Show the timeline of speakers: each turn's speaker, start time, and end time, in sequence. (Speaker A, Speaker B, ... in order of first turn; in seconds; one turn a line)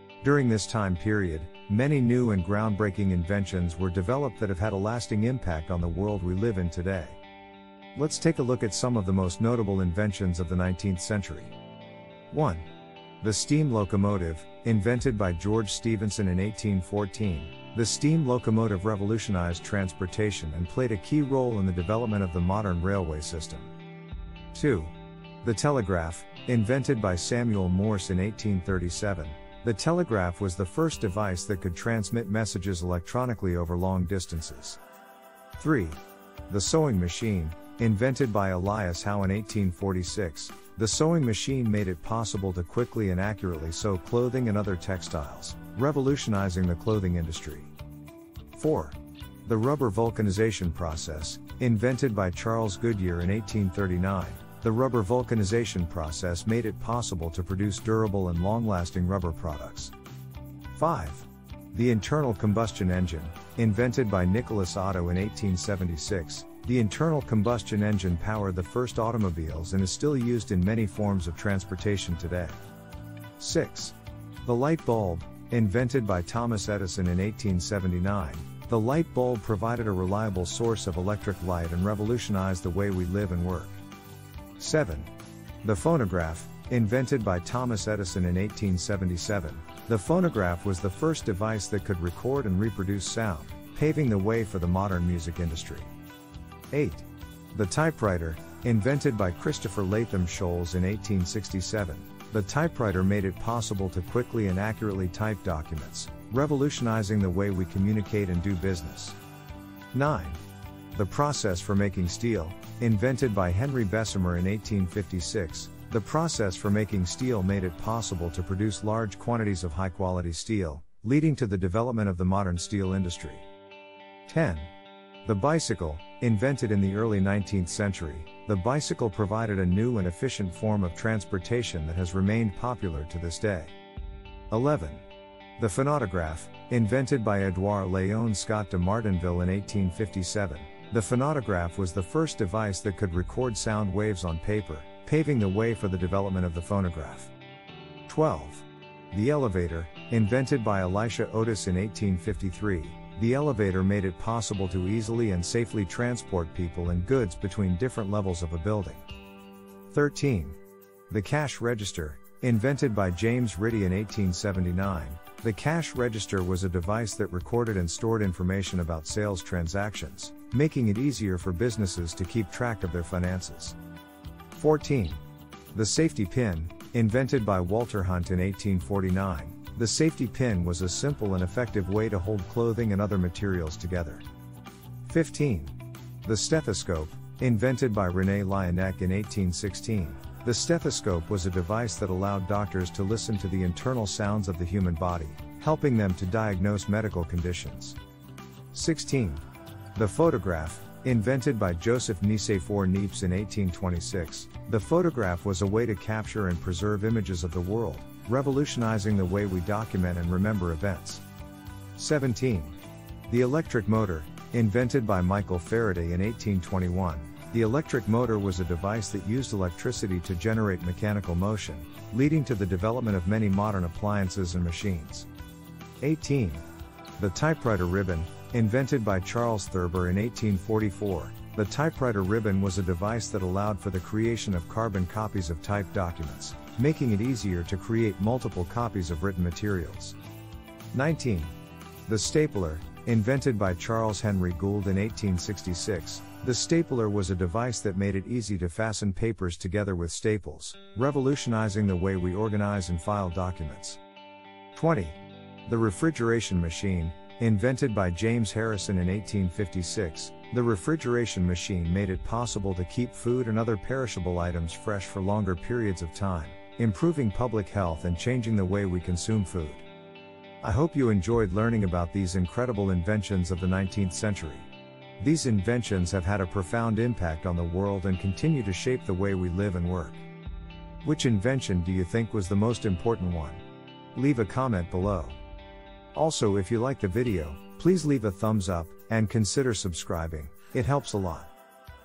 Speaker A: 0.2-7.2
Speaker A: 7.9-11.5
Speaker A: 12.3-12.7
Speaker A: 13.2-23.7
Speaker A: 24.5-34.8
Speaker A: 35.6-47.7
Speaker A: 48.5-59.9
Speaker A: 60.7-72.6
Speaker A: 73.4-83.8
Speaker A: 84.6-85.1
Speaker A: 85.6-95.9
Speaker A: 96.7-109.2
Speaker A: 109.9-110.4
Speaker A: 110.9-123.5
Speaker A: 124.3-124.7
Speaker A: 125.2-133.7
Speaker A: 134.5-135.0
Speaker A: 135.6-147.3
Speaker A: 148.1-159.0
Speaker A: 159.9-160.6
Speaker A: 161.1-173.8
Speaker A: 174.6-175.2
Speaker A: 175.7-184.2
Speaker A: 185.1-198.0
Speaker A: 198.7-199.4
Speaker A: 199.9-211.2
Speaker A: 211.9-225.3
Speaker A: 226.0-226.6
Speaker A: 227.2-240.2
Speaker A: 240.9-241.5
Speaker A: 242.1-254.0
Speaker A: 254.7-269.8
Speaker A: 270.6-280.3
Speaker A: 281.0-283.6
Speaker A: 284.1-285.4
Speaker A: 286.1-291.5